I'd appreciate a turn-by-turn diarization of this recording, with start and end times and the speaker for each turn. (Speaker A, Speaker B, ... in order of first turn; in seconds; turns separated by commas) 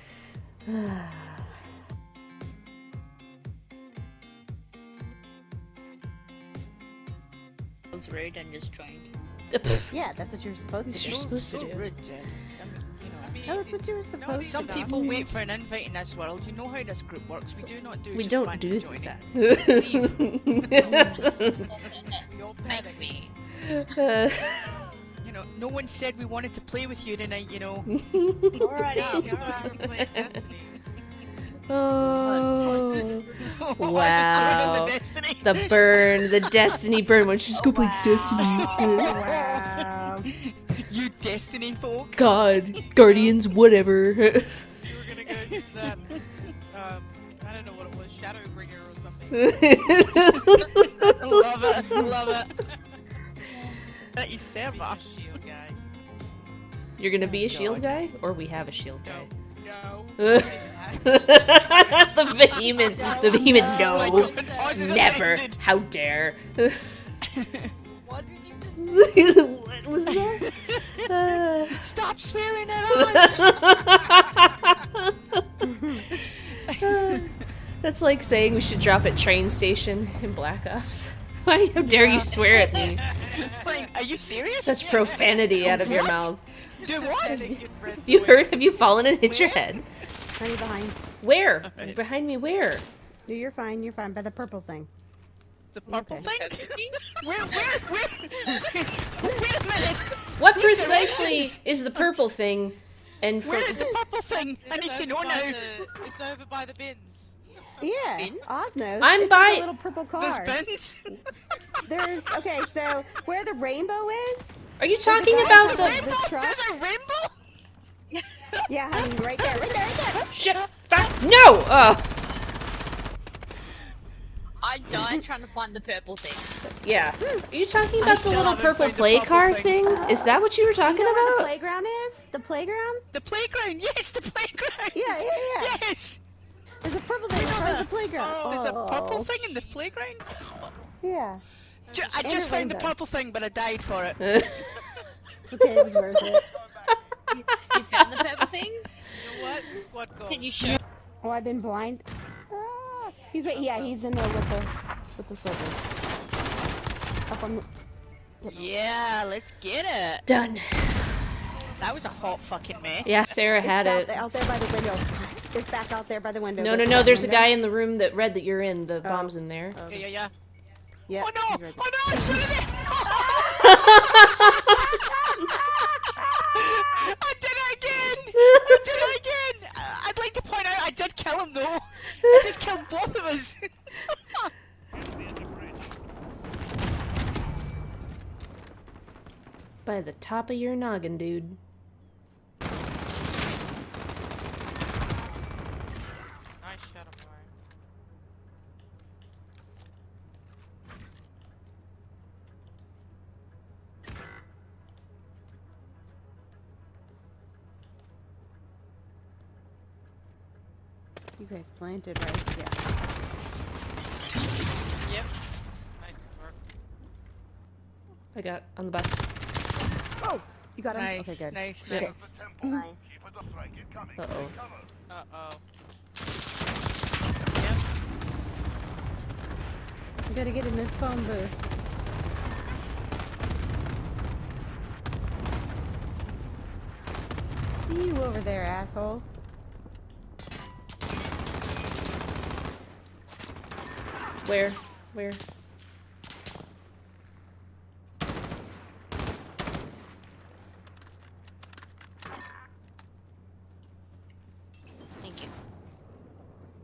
Speaker A: 0.7-1.5, Speaker B: 7.9-9.1, Speaker A: 9.5-9.9, Speaker C: 9.9-11.3, Speaker A: 10.9-11.9, Speaker D: 11.0-13.4, Speaker E: 13.0-15.2, Speaker C: 13.5-15.3, Speaker D: 14.4-19.1, Speaker A: 18.1-21.6, Speaker D: 19.8-20.1, Speaker E: 20.7-23.3, Speaker B: 21.1-23.3, Speaker A: 23.6-24.9, Speaker D: 25.2-28.2, Speaker A: 28.1-30.2, Speaker B: 28.6-29.7, Speaker E: 28.8-30.8, Speaker A: 31.7-39.2, Speaker B: 32.0-32.5, Speaker D: 33.4-36.8, Speaker B: 37.5-39.0, Speaker D: 38.2-39.9, Speaker C: 38.8-40.3, Speaker D: 40.5-42.8, Speaker A: 42.1-44.9, Speaker E: 43.0-43.4, Speaker E: 44.8-49.8, Speaker D: 45.4-46.2, Speaker A: 49.3-51.2, Speaker D: 51.2-52.5, Speaker D: 54.1-55.0, Speaker E: 54.6-55.8, Speaker A: 57.0-59.3, Speaker C: 57.2-57.8, Speaker E: 59.0-64.9, Speaker A: 60.2-67.0, Speaker C: 63.1-64.1, Speaker D: 63.8-65.6, Speaker D: 67.4-67.7, Speaker E: 68.0-69.1, Speaker A: 68.9-70.5, Speaker D: 70.1-70.8, Speaker A: 71.0-71.8, Speaker D: 71.7-73.6, Speaker A: 73.0-75.4, Speaker C: 75.6-76.0, Speaker D: 76.1-77.3, Speaker A: 76.8-83.1, Speaker D: 82.0-87.6, Speaker A: 84.5-86.4, Speaker C: 85.6-86.1, Speaker E: 87.2-88.8, Speaker A: 87.2-89.8, Speaker D: 89.3-89.6, Speaker C: 90.4-91.0, Speaker A: 91.2-92.8, Speaker D: 91.6-92.0, Speaker C: 93.3-94.9, Speaker D: 95.7-102.1, Speaker C: 95.9-96.3, Speaker B: 96.2-97.8, Speaker A: 100.4-103.9, Speaker D: 103.4-105.9, Speaker E: 104.3-107.3, Speaker C: 107.8-110.6, Speaker B: 108.2-108.5, Speaker A: 109.0-109.7, Speaker D: 110.2-111.0, Speaker C: 111.8-116.6, Speaker A: 114.8-116.0, Speaker D: 115.4-117.3, Speaker D: 118.5-119.0, Speaker C: 118.7-120.3, Speaker D: 120.1-121.1, Speaker A: 120.3-122.2, Speaker B: 124.6-126.5, Speaker C: 124.9-125.2, Speaker A: 126.7-131.5, Speaker D: 128.0-129.8, Speaker C: 129.8-133.0, Speaker D: 133.1-136.2, Speaker C: 134.9-135.8, Speaker C: 136.8-139.4, Speaker D: 137.3-137.9, Speaker E: 138.2-138.7, Speaker D: 138.4-140.7, Speaker E: 139.3-139.9, Speaker C: 141.0-141.4, Speaker E: 141.9-142.3, Speaker D: 141.9-144.6, Speaker C: 142.2-142.9, Speaker A: 144.3-144.6, Speaker C: 145.5-146.4, Speaker B: 147.3-148.9, Speaker E: 149.1-150.8, Speaker B: 150.3-150.8, Speaker C: 151.2-155.8, Speaker E: 153.5-153.9, Speaker C: 157.3-157.6, Speaker D: 158.4-160.2, Speaker A: 160.3-161.3, Speaker D: 161.8-163.3, Speaker A: 163.0-164.1, Speaker C: 163.6-167.5, Speaker A: 166.6-169.8, Speaker C: 169.0-170.1, Speaker D: 169.9-170.3, Speaker C: 171.1-172.5, Speaker D: 171.2-184.5, Speaker C: 173.1-176.3, Speaker A: 173.8-174.2, Speaker A: 189.8-191.6, Speaker E: 196.6-197.5, Speaker C: 211.4-212.8, Speaker E: 216.0-216.6, Speaker A: 218.3-219.2, Speaker C: 220.2-223.0, Speaker D: 220.9-222.3, Speaker A: 224.2-224.5, Speaker E: 225.1-225.6, Speaker E: 227.6-227.8, Speaker C: 230.3-231.5, Speaker C: 237.7-239.2, Speaker A: 244.4-245.4, Speaker B: 255.2-255.5